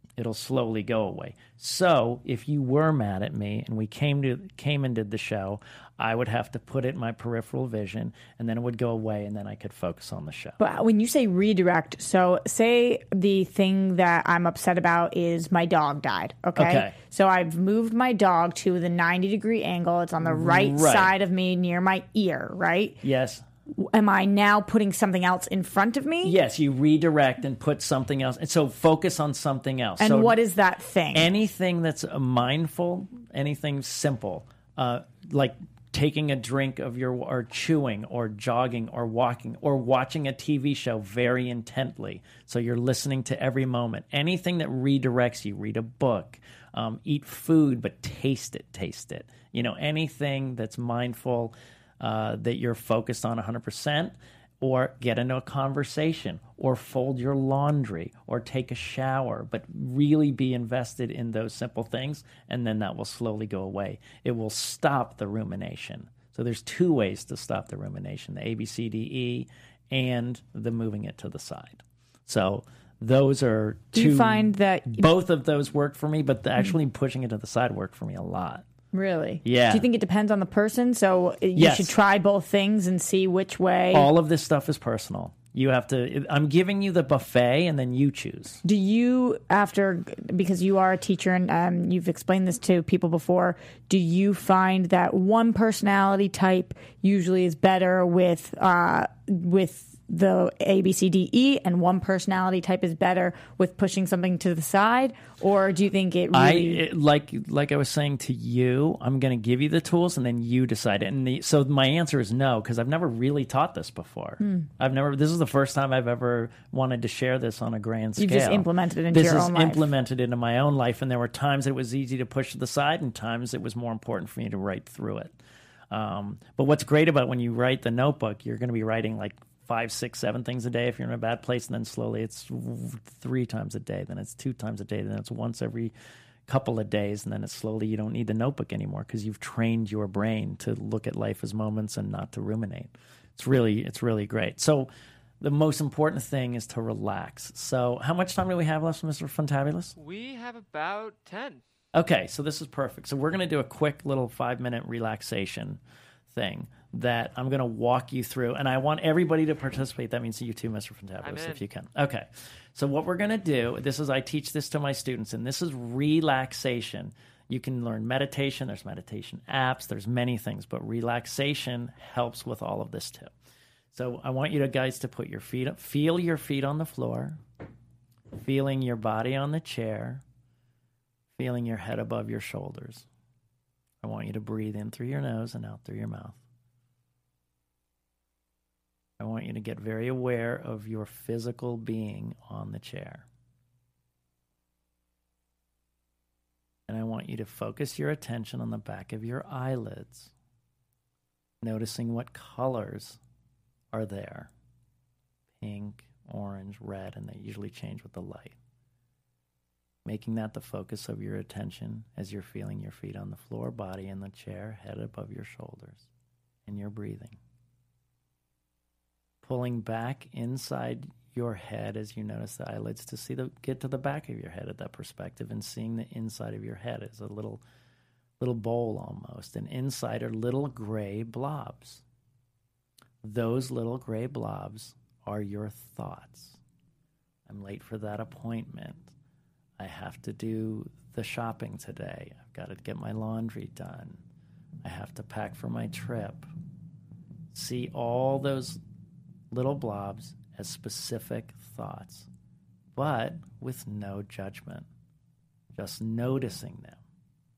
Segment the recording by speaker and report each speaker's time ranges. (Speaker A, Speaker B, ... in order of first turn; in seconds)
Speaker A: 0.2-10.6, 16.6-16.9, 20.2-21.1, 23.0-23.4, 26.2-30.4, 31.1-78.6, 79.4-79.9, 81.5-81.9, 83.9-88.6, 106.3-125.3, 125.9-135.9, 136.5-150.0, 151.9-173.3, 173.9-177.4, 178.3-180.2, 181.4-183.1, 184.0-186.4, 189.2-193.3, 196.9-200.3, 201.6-203.2, 203.9-204.5, 205.6-208.6, 210.1-216.1, 216.7-217.4, 219.4-227.6, 228.4-232.0, 233.2-236.6, 237.5-239.1, 239.8-244.2, 244.8-246.5, 247.5-248.8, 249.5-252.3, 252.9-254.9, 255.7-257.0
Speaker B: 10.6-23.0, 23.7-26.4, 30.0-31.3, 73.9-75.1, 78.9-84.1, 88.6-106.8, 114.4-114.7, 118.2-119.9
Speaker C: 150.0-151.6, 161.2-161.6